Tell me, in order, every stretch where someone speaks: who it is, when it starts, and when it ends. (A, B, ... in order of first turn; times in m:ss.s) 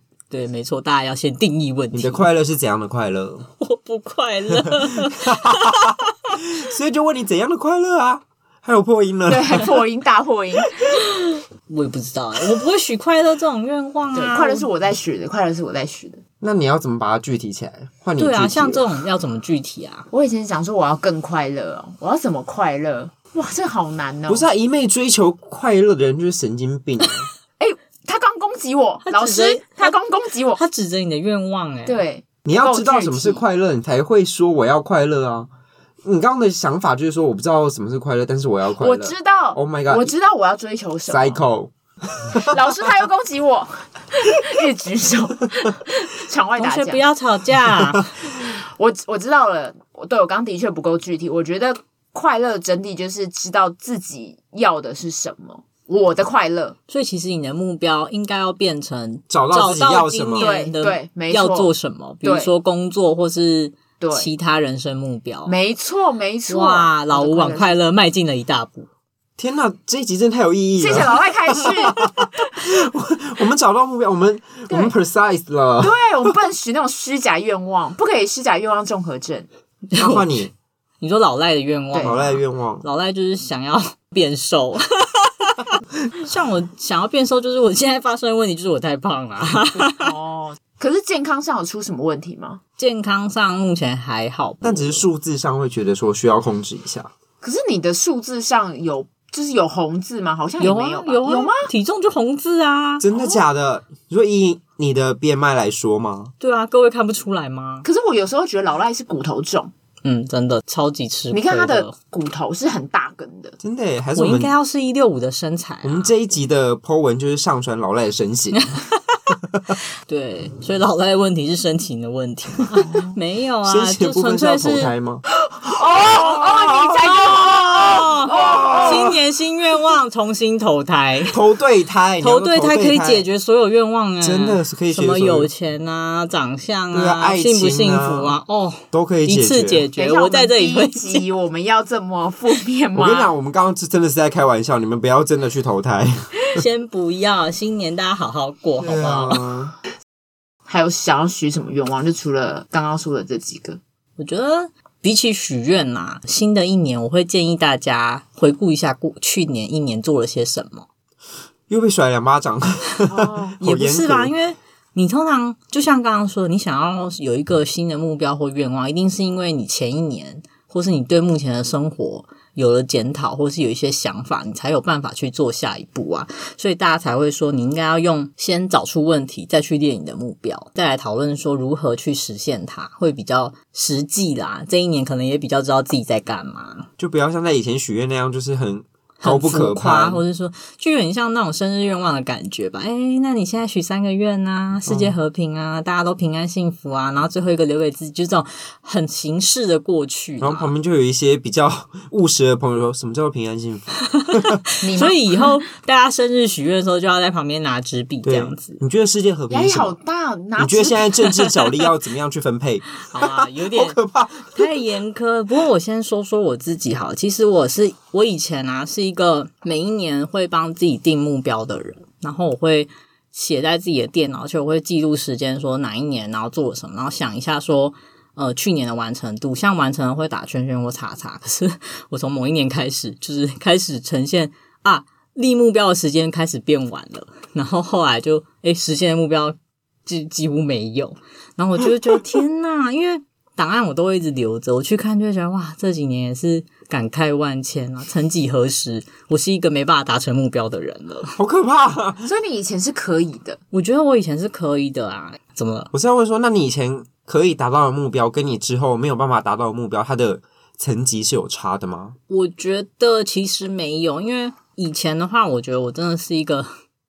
0:00.3-0:02.2 A
0:01.9-0:03.5 B
0:03.6-0:06.4 A
0:04.6-0:09.8 B
0:09.3-0:10.8 C
0:10.9-0:14.7 A
0:14.1-0:16.2 C
0:16.4-0:18.8 B
0:18.2-0:20.1 A
0:20.1-0:24.5 C
0:24.3-0:27.3 B
0:27.6-0:30.6 C
0:29.1-0:29.9 A
0:30.6-0:32.0 A
0:31.9-0:33.4 C
0:32.4-0:35.5 B
0:36.0-0:40.1 B
0:38.8-0:41.4 C
0:41.1-0:42.6 B
0:42.4-0:47.0 C
0:46.6-0:48.1 A
0:48.3-0:56.8 C
0:56.9-1:05.5 A
0:59.3-1:00.5 B
1:00.4-1:01.7 C
1:02.2-1:02.5 C
1:04.0-1:04.3 C
1:05.5-1:07.8 C
1:06.5-1:08.9 A
1:09.4-1:16.3 B
1:10.8-1:12.3 C
1:14.7-1:14.9 C
1:15.8-1:19.5 C
1:19.9-1:20.4 A
1:20.0-1:20.5 B
1:21.0-1:30.1 A
1:22.0-1:22.8 B
1:29.9-1:32.6 C
1:32.8-1:35.0 A
1:34.6-1:37.1 B
1:37.4-1:41.7 C
1:40.6-1:43.1 A
1:43.0-1:46.3 B
1:43.2-1:43.4 C
1:46.4-1:47.9 A
1:47.8-1:49.7 C
1:50.0-1:51.9 A
1:51.3-1:53.6 C
1:53.6-1:54.5 B
1:54.2-1:56.1 A
1:55.8-1:58.7 B
1:58.5-1:59.3 A
2:00.1-2:04.9 A
2:02.8-2:03.2 C
2:03.6-2:05.2 B
2:05.5-2:09.1 C
2:05.8-2:09.2 B
2:07.0-2:11.4 A
2:11.3-2:13.2 B
2:12.2-2:21.2 A
2:14.2-2:15.5 B
2:16.9-2:18.3 B
2:18.9-2:19.9 B
2:20.0-2:23.3 C
2:23.0-2:26.6 B
2:26.5-2:29.4 A
2:28.8-2:29.8 B
2:30.7-2:33.8 C
2:34.2-2:40.9 A
2:41.7-2:44.3 B
2:43.1-2:43.6 C
2:43.6-3:06.9 A
3:07.0-3:10.2 B
3:09.2-3:20.7 A
3:14.9-3:15.2 B
3:20.4-3:24.6 B
3:24.1-3:28.8 A
3:24.8-3:25.6 C
3:28.2-3:30.0 B
3:29.5-3:31.1 C
3:30.6-3:34.7 B
3:33.0-3:34.0 A
3:34.5-4:11.4 A
4:11.4-4:12.3 B
4:12.2-4:13.6 C
4:13.7-4:15.9 A
4:15.9-4:22.2 B
4:22.3-4:26.7 A